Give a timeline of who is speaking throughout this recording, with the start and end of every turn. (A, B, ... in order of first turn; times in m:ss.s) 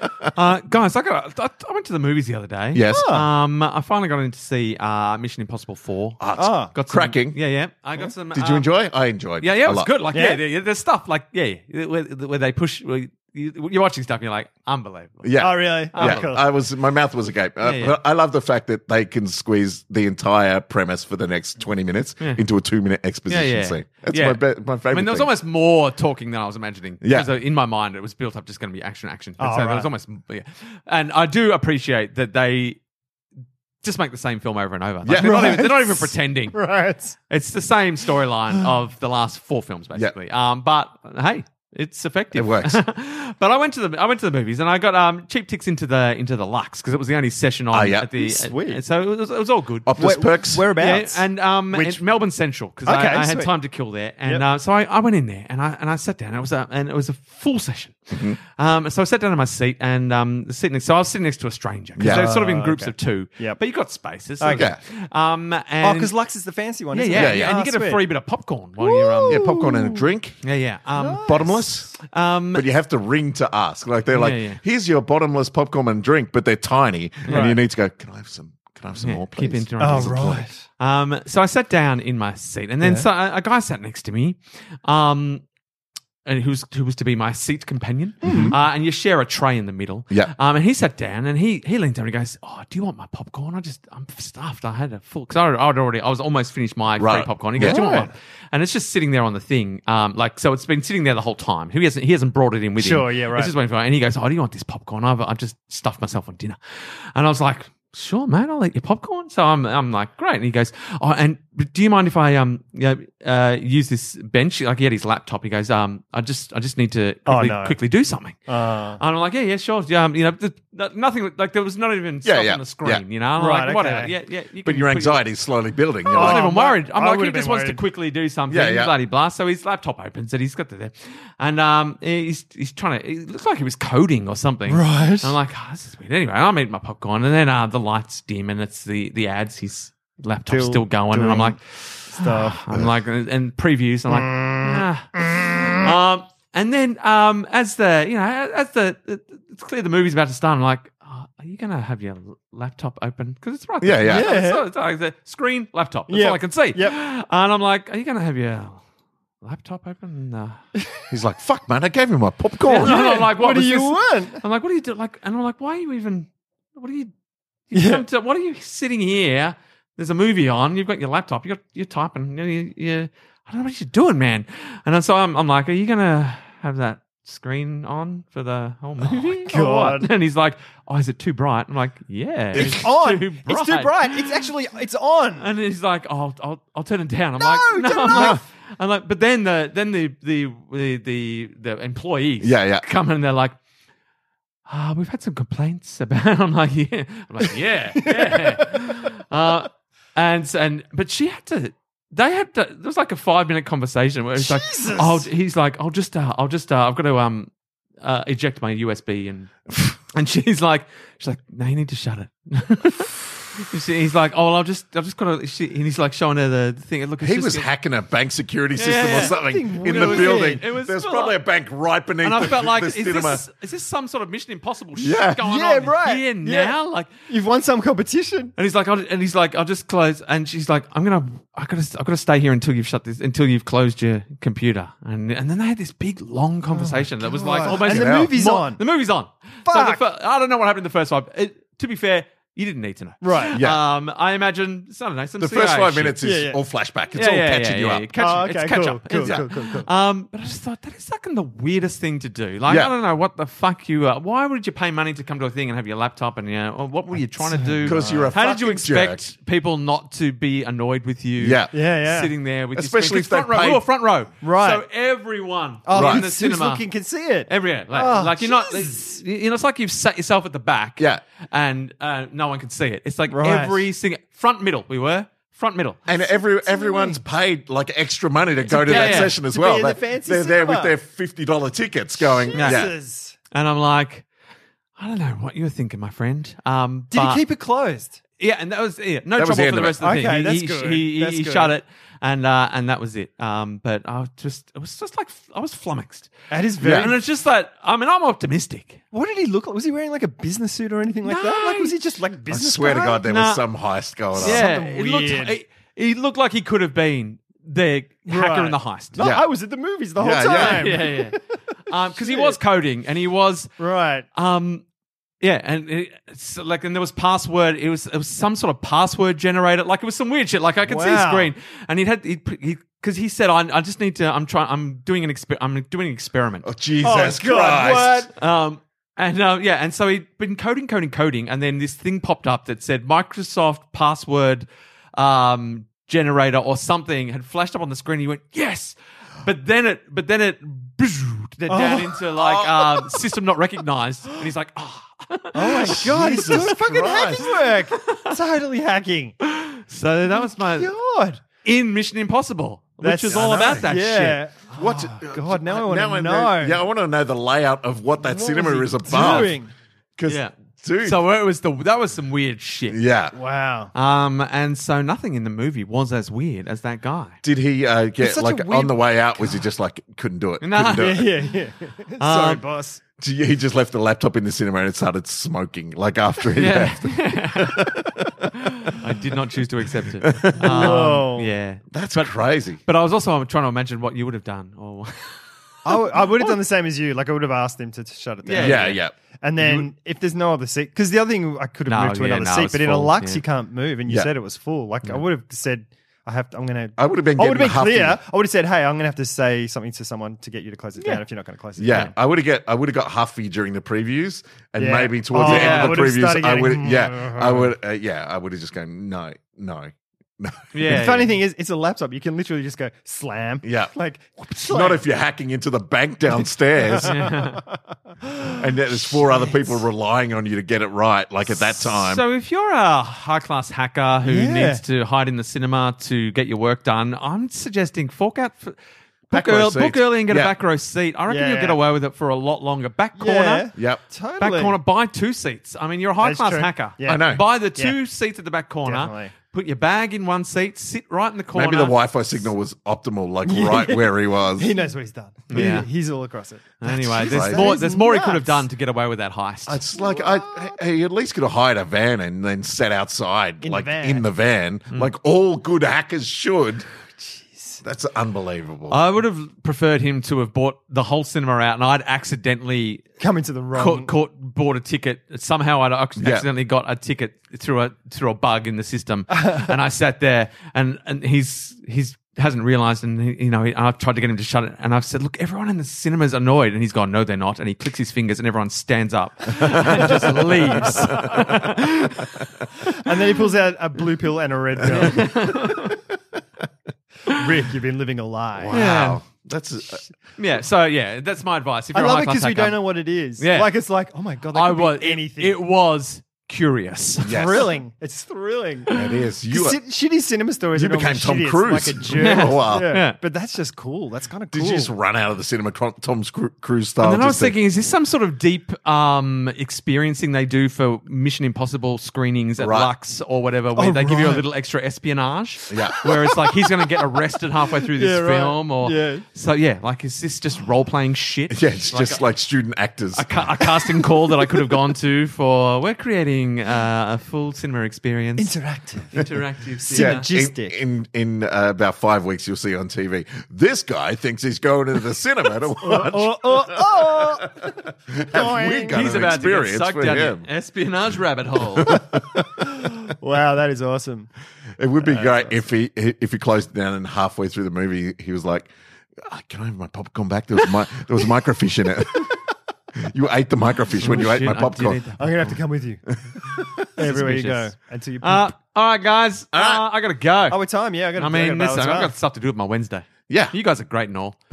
0:00.3-0:08.7 A
0:02.7-0:03.1 B
0:02.9-0:03.3 C
0:06.2-0:07.4 B
0:06.4-0:06.7 C
0:08.3-0:09.9 B
0:09.4-0:16.3 A
0:10.1-0:10.4 C
0:15.2-0:25.3 B
0:15.4-0:16.4 C
0:17.6-0:18.0 A
0:23.3-0:32.8 A
0:27.0-0:27.3 B
0:29.4-0:29.9 C
0:33.8-0:36.6 A
0:35.0-0:35.6 B
0:35.2-0:37.2 C
0:37.3-0:49.9 A
0:42.3-0:42.8 B
0:47.7-0:48.1 B
0:48.1-0:48.8 C
0:49.8-0:50.7 B
0:50.0-0:51.9 C
0:50.7-1:06.1 A
0:52.8-0:53.5 C
0:58.1-0:58.4 B
1:02.0-1:02.3 B
1:02.0-1:03.6 C
1:04.4-1:04.7 C
1:05.8-1:08.0 C
1:06.9-1:09.6 A
1:07.1-1:07.6 B
1:08.8-1:10.0 C
1:09.3-1:10.4 B
1:10.4-1:11.3 A
1:11.0-1:11.9 C
1:11.2-1:11.9 B
1:12.1-1:12.6 A
1:12.5-1:20.4 B
1:14.1-1:14.6 A
1:17.3-1:17.6 C
1:19.0-1:25.4 A
1:19.8-1:20.6 C
1:22.8-1:23.1 C
1:26.2-1:58.5 A
1:28.2-1:28.6 C
1:28.2-1:28.5 B
1:37.0-1:37.8 B
1:37.6-1:38.1 C
1:42.8-1:43.5 C
1:57.3-1:57.8 C
1:58.5-1:59.0 C
1:59.0-2:05.2 A
2:02.2-2:03.0 B
2:03.4-2:04.1 C
2:04.6-2:06.4 B
2:06.1-2:38.8 A
2:06.1-2:07.8 C
2:08.5-2:08.9 B
2:14.7-2:15.4 C
2:20.5-2:21.5 C
2:22.1-2:22.8 C
2:24.1-2:25.9 C
2:33.8-2:34.3 B
2:34.1-2:34.6 C
2:36.1-2:37.0 C
2:39.4-2:40.6 A
2:41.1-2:43.0 B
2:42.7-2:47.1 A
2:42.7-2:44.4 C
2:47.7-3:04.5 A
2:47.7-2:48.0 C
2:59.4-3:00.1 C
3:02.5-3:05.5 C
3:05.4-3:13.6 A
3:07.4-3:08.4 C
3:08.1-3:08.4 B
3:12.4-3:12.8 B
3:14.7-3:29.5 A
3:18.0-3:18.8 C
3:24.4-3:25.2 C
3:30.1-3:37.7 A
3:37.2-3:43.4 B
3:38.8-3:41.4 A
3:39.0-3:40.6 C
3:42.2-3:47.1 A
3:45.0-3:45.4 B
3:45.4-3:46.8 C
3:47.3-3:48.5 C
3:48.6-4:06.2 A
3:56.7-3:58.8 C
3:57.6-3:58.3 B
3:59.6-4:00.0 C
4:03.2-4:03.6 C
4:03.5-4:03.8 B
4:05.4-4:08.1 B
4:06.2-4:06.6 C
4:07.1-4:26.8 A
4:08.2-4:09.9 C
4:12.7-4:12.9 B
4:17.4-4:18.6 C
4:17.8-4:19.2 B
4:21.4-4:21.7 B
4:21.7-4:22.3 C
4:22.7-4:23.8 B
4:24.4-4:24.8 C
4:25.8-4:29.1 C
4:25.9-4:26.2 B
4:27.5-4:36.0 A
4:33.3-4:33.8 C
4:36.1-4:42.9 B
4:36.6-4:37.2 C
4:38.7-4:40.9 C
4:38.8-4:39.3 A
4:42.4-4:43.4 C
4:42.5-4:42.9 A
4:43.5-4:44.3 A
4:45.0-4:47.4 A
4:47.1-4:48.2 C
4:48.4-4:56.3 A
4:49.4-4:50.0 B
4:50.0-4:51.7 C
4:56.5-4:57.2 C
4:56.8-4:57.1 B
4:56.8-4:59.0 A
4:59.1-5:03.2 C
5:01.2-5:01.9 A
5:02.5-5:04.6 B
5:03.2-5:03.6 A
5:04.3-5:05.6 C
5:04.4-5:09.2 A
5:08.3-5:11.6 C
5:09.2-5:09.4 B
5:10.2-5:11.0 B
5:10.5-5:13.7 A
5:12.1-5:12.6 C
5:13.8-5:14.2 C
5:14.3-5:14.8 A
5:15.4-5:26.7 A
5:20.8-5:21.5 C
5:26.6-5:28.3 B
5:27.0-5:28.3 C
5:28.3-5:48.3 A
5:41.7-5:43.2 C
5:45.5-5:49.4 C
5:45.9-5:47.5 B
5:49.4-5:50.9 A
5:50.6-5:51.4 C
5:51.6-5:54.4 A
5:53.0-5:56.8 C
5:53.3-5:53.9 B
5:54.7-5:59.6 B
5:58.2-5:59.7 C
6:00.2-6:01.2 B
6:00.2-6:00.5 A
6:01.0-6:03.0 A
6:02.9-6:03.4 B
6:03.3-6:03.9 C
6:03.9-6:07.4 A
6:07.4-6:11.3 B
6:08.2-6:09.6 C
6:10.6-6:11.3 A
6:10.9-6:13.0 C
6:12.2-6:12.6 A
6:13.2-6:19.0 B
6:16.5-6:18.0 A
6:18.5-6:26.0 A
6:20.2-6:21.1 B
6:20.6-6:21.5 C
6:21.9-6:22.8 B
6:25.8-6:42.1 C
6:28.4-6:29.0 A
6:28.6-6:29.9 B
6:31.9-6:33.4 A
6:37.0-6:38.2 B
6:41.8-6:51.0 B
6:44.8-6:47.7 C
6:45.4-6:46.0 A
6:50.7-6:51.4 A
6:50.8-6:55.0 C
6:53.6-6:53.9 B
6:54.5-6:57.4 B
6:56.8-6:58.6 C
6:57.0-6:57.6 A
6:58.5-7:02.2 B
6:59.3-6:59.8 C
7:01.9-7:08.8 A
7:04.2-7:04.8 C
7:09.3-7:10.5 B
7:09.3-7:13.7 A
7:11.3-7:11.8 C
7:13.2-7:14.8 C
7:14.4-7:21.9 A
7:16.2-7:18.0 C
7:17.0-7:17.4 B
7:18.8-7:19.3 C
7:21.5-7:24.7 B
7:23.4-7:24.0 C
7:24.6-7:28.6 C
7:25.5-7:25.9 A
7:26.8-7:29.8 A
7:26.9-7:27.7 B
7:29.7-7:36.8 B
7:29.9-7:30.8 C
7:33.6-7:34.3 C
7:37.3-7:37.8 C
7:37.8-7:39.0 B
7:38.9-7:43.1 A
7:43.2-7:44.1 C
7:43.7-8:02.4 A
7:46.2-7:46.5 B
7:59.6-8:01.5 B
8:00.0-8:01.2 C
8:02.9-8:05.5 C
8:04.9-8:05.9 A
8:07.3-8:08.8 C
8:08.6-8:10.0 B
8:08.7-8:09.2 A
8:10.4-8:12.8 A
8:11.9-8:15.6 C
8:13.4-8:13.7 A
8:14.5-8:17.4 A
8:17.2-8:24.9 C
8:17.2-8:17.6 B
8:18.9-8:19.8 B
8:20.7-8:22.9 B
8:22.2-8:23.2 A
8:24.5-8:27.5 B
8:27.0-8:42.2 A
8:32.6-8:32.9 B
8:33.8-8:34.4 C
8:35.7-8:36.0 B
8:37.8-8:39.2 C
8:41.5-8:43.2 B
8:43.1-8:48.6 A
8:48.4-8:49.3 C
8:49.1-8:50.3 A
8:49.8-8:50.7 C
8:49.9-9:00.4 B
8:55.8-8:59.1 C
8:58.9-9:02.1 A
9:01.8-9:03.1 B
9:02.8-9:04.3 C
9:04.8-9:12.3 B
9:05.0-9:05.6 C
9:13.0-9:15.0 B
9:14.0-9:15.2 A
9:15.1-9:18.5 C
9:16.5-9:16.9 B
9:17.0-9:20.6 A
9:19.5-9:19.8 B
9:20.5-9:22.1 C
9:21.2-9:24.4 A
9:23.3-9:23.5 B